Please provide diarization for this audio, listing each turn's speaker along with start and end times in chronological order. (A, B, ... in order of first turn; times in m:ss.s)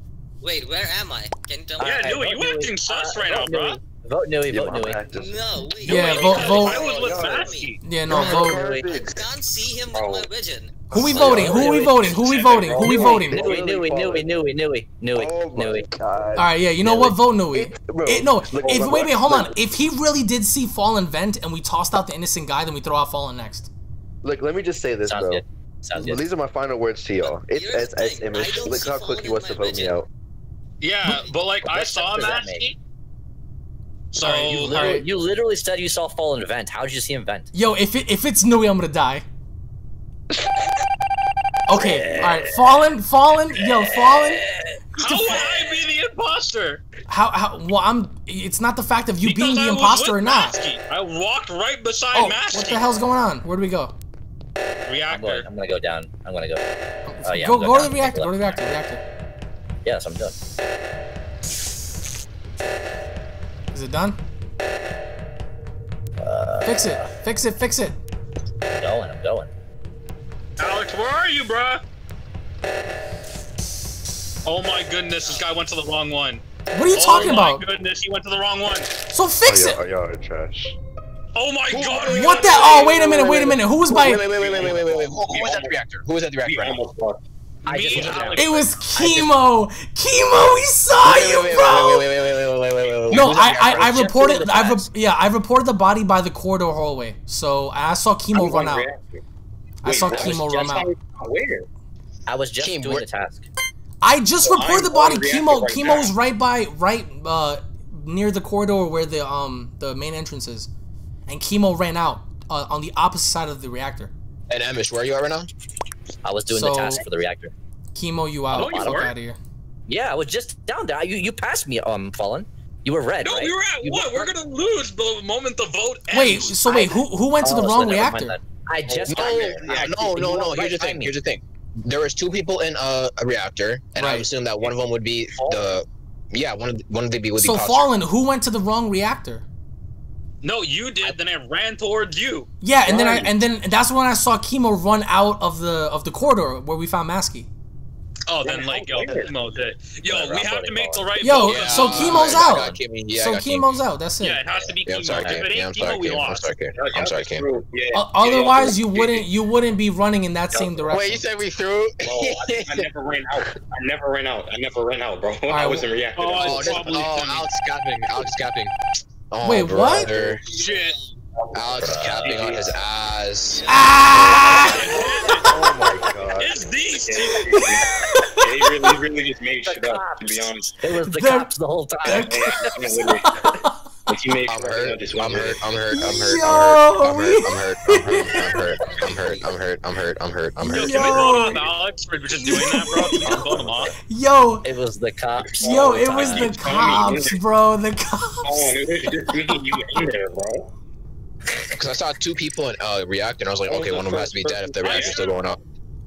0:00.4-0:02.1 A
0:01.8-0:05.1 B
0:01.8-0:03.8 C
0:04.5-0:05.7 D
0:05.1-0:07.8 A
0:05.8-0:08.0 C
0:05.8-0:06.8 E
0:06.5-0:07.5 D
0:07.8-0:08.6 E
0:08.1-0:08.9 B
0:08.1-0:09.2 D
0:08.9-0:10.8 A
0:09.9-0:10.3 F
0:10.9-0:11.8 D
0:10.9-0:13.5 E
0:11.1-0:12.1 B
0:11.2-0:12.7 C
0:11.5-0:13.3 F
0:12.8-0:14.4 D
0:13.2-0:15.9 B
0:15.1-0:19.6 D
0:16.4-0:23.7 E
0:24.2-0:25.4 D
0:25.0-0:26.2 B
0:26.0-0:30.1 D
0:27.2-0:30.0 A
0:30.8-0:32.8 C
0:31.0-0:31.3 A
0:31.8-0:32.7 B
0:34.1-0:35.0 C
0:34.2-0:35.0 E
0:34.4-0:37.5 B
0:34.7-0:35.0 D
0:37.5-0:39.2 E
0:40.3-0:40.8 D
0:41.7-0:44.4 E
0:41.8-0:42.5 B
0:43.6-0:44.8 B
0:45.0-0:46.8 C
0:45.0-0:45.5 E
0:45.4-0:45.8 B
0:47.1-0:50.6 E
0:49.2-0:52.9 C
0:52.1-0:53.9 E
0:54.9-0:55.5 C
0:55.1-0:56.6 B
0:57.1-0:59.0 E
0:57.2-0:58.6 B
0:59.8-1:00.4 B
1:03.7-1:04.2 E
1:06.2-1:07.0 B
1:06.6-1:08.0 E
1:08.7-1:09.5 B
1:10.6-1:11.8 C
1:14.4-1:18.9 C
1:15.2-1:15.4 A
1:16.7-1:17.6 E
1:17.0-1:17.3 A
1:19.1-1:19.8 E
1:19.4-1:20.8 D
1:21.3-1:23.1 C
1:21.8-1:22.4 G
1:22.1-1:24.3 E
1:22.3-1:23.6 F
1:23.8-1:26.9 G
1:24.3-1:25.8 F
1:26.4-1:27.2 F
1:27.6-1:28.7 C
1:27.6-1:29.3 B
1:28.3-1:32.1 E
1:31.0-1:34.0 G
1:33.1-1:38.9 E
1:33.6-1:34.9 B
1:38.3-1:39.2 F
1:39.8-1:40.9 E
1:39.8-1:41.7 F
1:40.1-1:40.4 G
1:42.3-1:43.5 B
1:42.6-1:43.1 G
1:44.0-1:50.7 E
1:44.4-1:46.1 F
1:51.3-1:54.1 E
1:54.5-1:55.5 G
1:56.2-1:57.5 B
1:56.5-1:57.0 E
1:57.9-1:59.4 E
1:58.5-1:59.1 B
1:58.5-1:59.1 C
1:59.9-2:04.3 B
2:03.2-2:06.6 C
2:06.1-2:08.4 E
2:06.7-2:11.2 B
2:08.9-2:10.6 F
2:09.1-2:17.9 G
2:14.0-2:14.3 E
2:15.4-2:15.8 B
2:17.4-2:19.4 E
2:20.4-2:22.5 C
2:22.6-2:27.5 E
2:22.8-2:23.3 F
2:28.3-2:31.9 C
2:28.4-2:29.6 F
2:30.0-2:32.8 B
2:31.2-2:34.4 E
2:31.3-2:33.7 G
2:31.9-2:32.2 F
2:34.2-2:36.5 C
2:34.8-2:37.5 G
2:35.2-2:35.5 B
2:36.7-2:39.3 F
2:37.9-2:41.3 E
2:40.5-2:40.9 F
2:40.9-2:42.9 G
2:42.0-2:47.1 F
2:45.5-2:45.9 E
2:46.2-2:47.4 C
2:46.4-2:48.7 G
2:49.3-2:50.4 G
2:49.4-2:50.1 E
2:49.8-2:50.7 F
2:50.6-2:51.0 C
2:50.6-2:51.1 A
2:51.4-2:52.8 F
2:51.5-2:53.7 G
2:51.8-2:52.2 B
2:53.7-2:55.1 E
2:54.1-2:56.6 D
2:54.4-2:57.6 C
2:54.4-2:54.8 F
2:54.9-2:55.2 A
2:56.8-3:00.8 F
2:57.5-2:58.8 E
2:59.6-3:02.3 B
3:01.0-3:01.5 E
3:02.0-3:03.5 F
3:02.0-3:03.8 E
3:04.1-3:06.1 F
3:04.4-3:11.4 G
3:05.9-3:08.4 E
3:08.4-3:09.5 B
3:10.6-3:13.9 C
3:10.7-3:11.6 E
3:11.1-3:11.7 F
3:12.4-3:14.7 E
3:13.4-3:13.7 B
3:14.6-3:16.6 B
3:15.4-3:17.4 F
3:15.6-3:18.8 E
3:18.4-3:20.7 F
3:21.7-3:25.6 G
3:23.7-3:25.6 F
3:24.8-3:25.2 C